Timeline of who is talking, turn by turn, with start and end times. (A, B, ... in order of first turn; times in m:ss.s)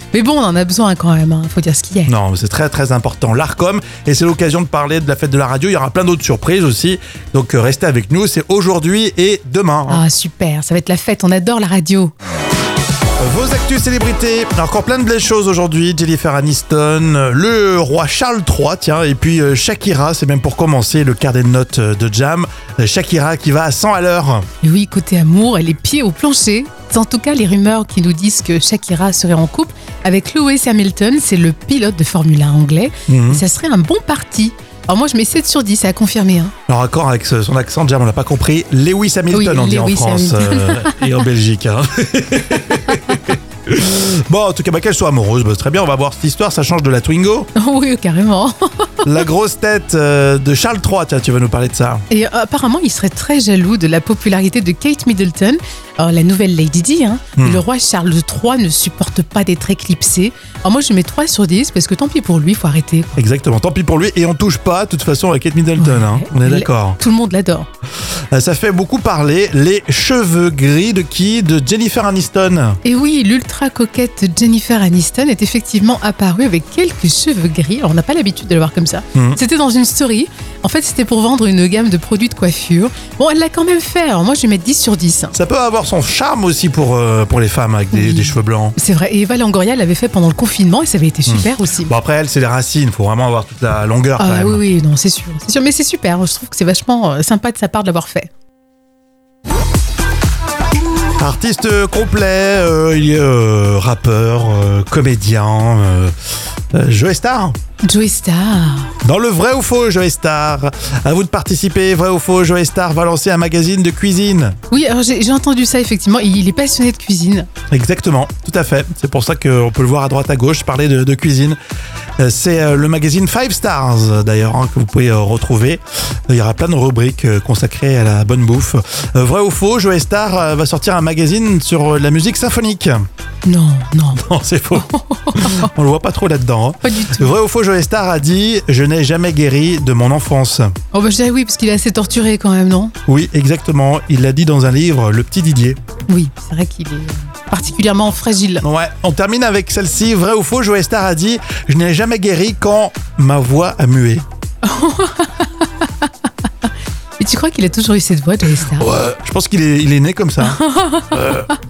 0:00.1-0:02.1 A
0:02.1-0:10.0 B
0:09.9-0:12.1 A
0:13.2-0:24.5 B
0:24.6-0:36.5 A
0:33.1-0:33.4 B
0:36.7-0:47.5 B
0:39.3-0:41.0 A
0:47.6-0:49.1 A
0:49.0-0:52.0 B
0:52.1-1:03.2 A
0:57.4-0:57.6 B
1:03.2-1:07.0 B
1:05.8-1:07.7 A
1:08.3-1:12.8 B
1:12.8-1:25.3 A
1:19.2-1:19.4 B
1:25.3-1:28.8 B
1:27.9-1:31.9 A
1:31.3-1:34.6 B
1:34.2-1:38.3 A
1:41.2-1:46.1 B
1:46.7-1:47.6 B
1:47.8-1:48.9 A
1:49.0-1:54.6 B
1:54.7-1:57.5 A
1:57.7-2:01.6 B
2:02.2-2:13.0 B
2:13.5-2:15.7 A
2:14.2-2:20.7 B
2:16.8-2:17.3 A
2:20.9-2:22.9 A
2:23.1-2:25.8 B
2:26.1-2:28.6 A
2:28.6-2:34.2 B
2:34.6-2:36.1 A
2:37.2-2:38.9 A
2:38.6-2:41.5 B
2:40.4-2:41.5 A